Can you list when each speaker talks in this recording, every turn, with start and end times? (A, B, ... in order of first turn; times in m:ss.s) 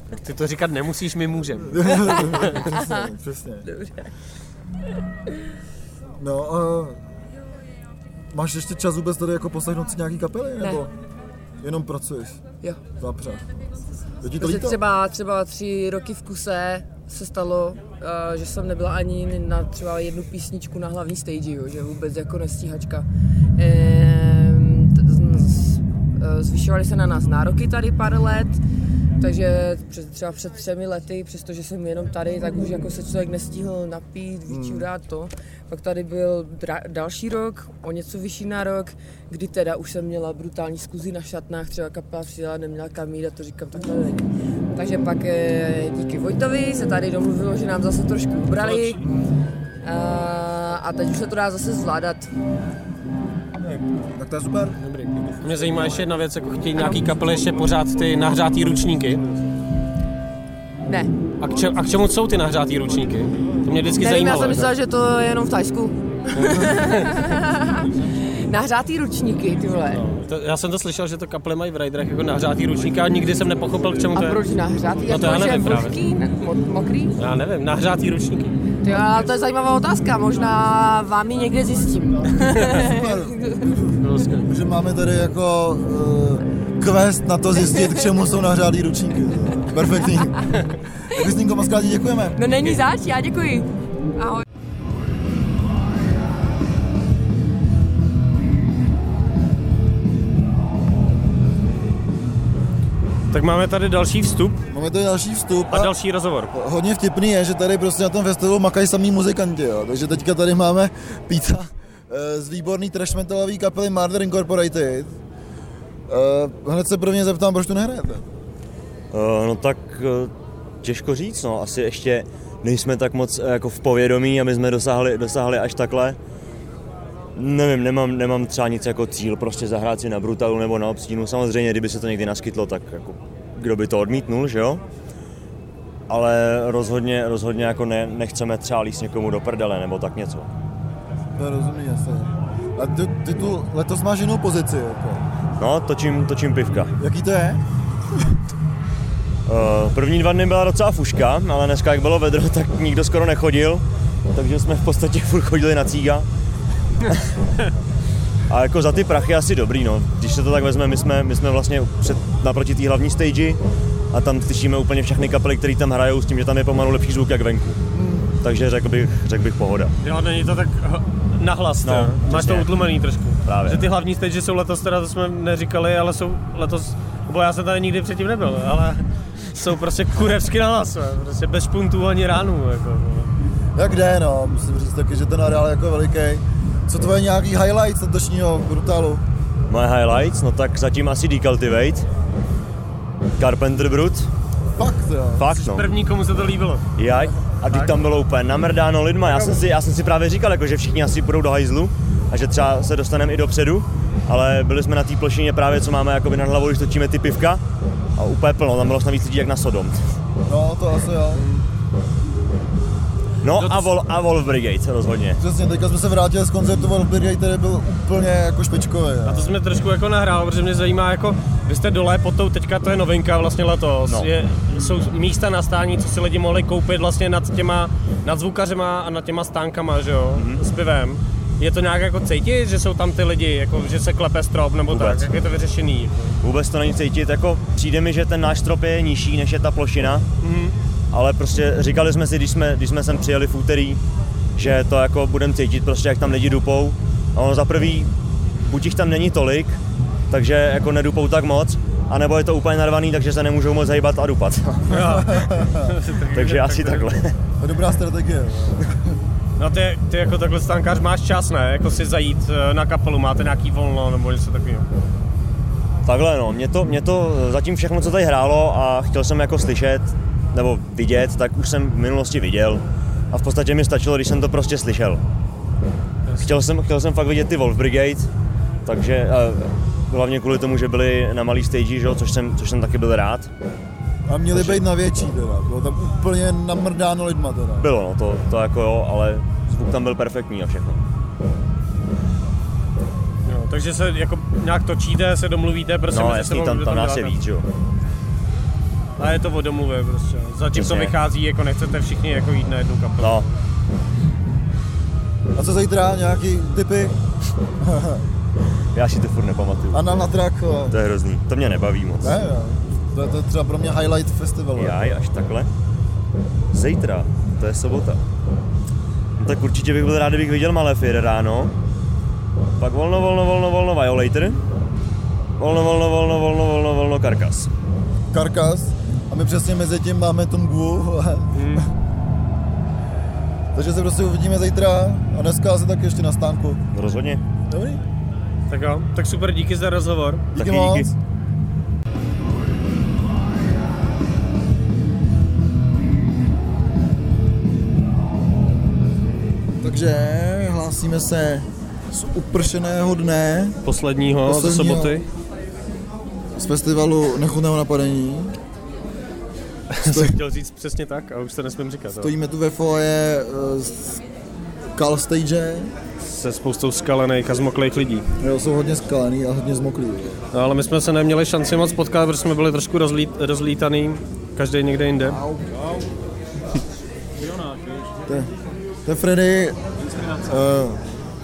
0:00.1-0:02.5 A
0:01.6-0:03.7 B
0:01.9-0:03.1 C
0:03.6-0:04.1 C
0:06.2-0:07.1 B
0:08.3-0:10.9 B
0:11.6-0:12.4 B
0:13.0-0:13.7 B
0:14.2-0:14.8 B
0:14.4-0:28.6 C
0:29.2-0:49.0 C
0:34.5-0:34.9 B
0:48.6-0:49.0 A
0:49.0-0:49.3 B
0:49.8-0:52.3 C
0:53.9-0:55.8 B
0:54.8-0:59.2 A
0:56.8-0:57.2 C
0:58.6-0:59.4 B
1:00.9-1:01.1 C
1:01.4-1:04.7 A
1:03.9-1:10.0 C
1:06.4-1:07.3 A
1:09.9-1:14.4 A
1:14.1-1:17.2 C
1:15.1-1:16.0 A
1:17.2-1:18.6 A
1:18.8-1:23.9 C
1:22.6-1:23.9 B
1:24.0-1:24.5 A
1:24.4-1:30.5 B
1:31.1-1:32.6 B
1:32.4-1:34.4 C
1:43.3-1:44.6 A
1:44.7-1:45.9 B
1:45.7-1:46.5 A
1:46.5-1:55.2 B
1:56.1-1:58.3 B
1:59.1-2:06.2 D
2:07.4-2:14.8 D
2:16.1-2:20.5 D
2:21.4-2:25.3 B
2:25.6-2:26.9 D
2:27.0-2:27.6 B
2:29.5-2:36.3 D
2:38.5-2:43.6 D
2:44.1-2:47.8 D
2:47.9-2:48.3 B
2:48.4-2:49.9 D
2:50.0-3:03.3 A
2:51.8-2:52.7 D
2:53.4-2:53.9 D
3:03.8-3:09.2 B
3:09.7-3:12.1 D
3:13.4-3:14.3 D
3:14.8-3:15.5 B
3:15.4-3:15.9 D
3:15.5-3:16.9 A
3:17.0-3:27.6 D
3:28.2-3:30.0 D
3:30.5-3:31.5 B
3:33.4-3:35.4 D
3:33.5-3:34.0 A
3:35.4-3:39.6 B
3:39.3-3:56.4 A
3:50.4-3:50.6 D
3:54.9-3:55.3 D
3:56.4-4:00.2 D
4:00.4-4:00.8 A
4:01.1-4:04.0 D
4:04.6-4:08.1 D
4:08.7-4:09.8 D
4:10.3-4:14.8 D
4:14.9-4:17.2 A
4:14.9-4:16.0 B
4:16.3-4:17.4 D
4:17.6-4:19.2 B
4:19.6-4:24.9 A
4:26.0-4:35.3 D
4:36.3-4:36.6 A
4:36.4-4:38.3 D
4:38.8-4:43.5 D
4:44.3-4:47.9 B
4:44.5-4:44.8 D
4:47.8-4:51.0 D
4:53.5-4:57.4 A
4:56.1-4:57.7 D
4:59.2-5:03.5 A
5:00.8-5:01.2 D
5:03.2-5:03.5 D
5:05.6-5:07.2 B
5:07.8-5:08.2 B
5:08.9-5:10.1 D
5:09.9-5:11.0 B
5:10.9-5:12.4 D
5:12.2-5:15.0 B
5:14.8-5:15.7 D
5:16.7-5:18.2 D
5:19.4-5:21.7 D
5:22.8-5:24.6 D
5:25.6-5:27.7 D
5:28.3-5:31.9 B
5:31.5-5:31.9 A
5:33.7-5:36.8 B
5:36.9-5:37.4 D
5:37.7-5:38.0 B
5:38.7-5:40.5 A
5:40.5-5:41.1 B
5:40.6-5:41.1 D
5:49.8-5:53.8 B
5:53.8-5:55.3 A
5:54.4-5:55.2 B
5:56.6-5:58.6 B
5:59.9-6:02.3 A
6:00.0-6:00.4 B
6:02.1-6:04.2 B
6:05.0-6:05.9 B
6:06.2-6:08.3 A
6:08.4-6:10.4 B
6:10.5-6:15.4 A
6:15.2-6:15.8 B
6:17.4-6:17.9 A
6:18.3-6:18.5 B
6:19.0-6:19.8 B
6:20.5-6:21.1 B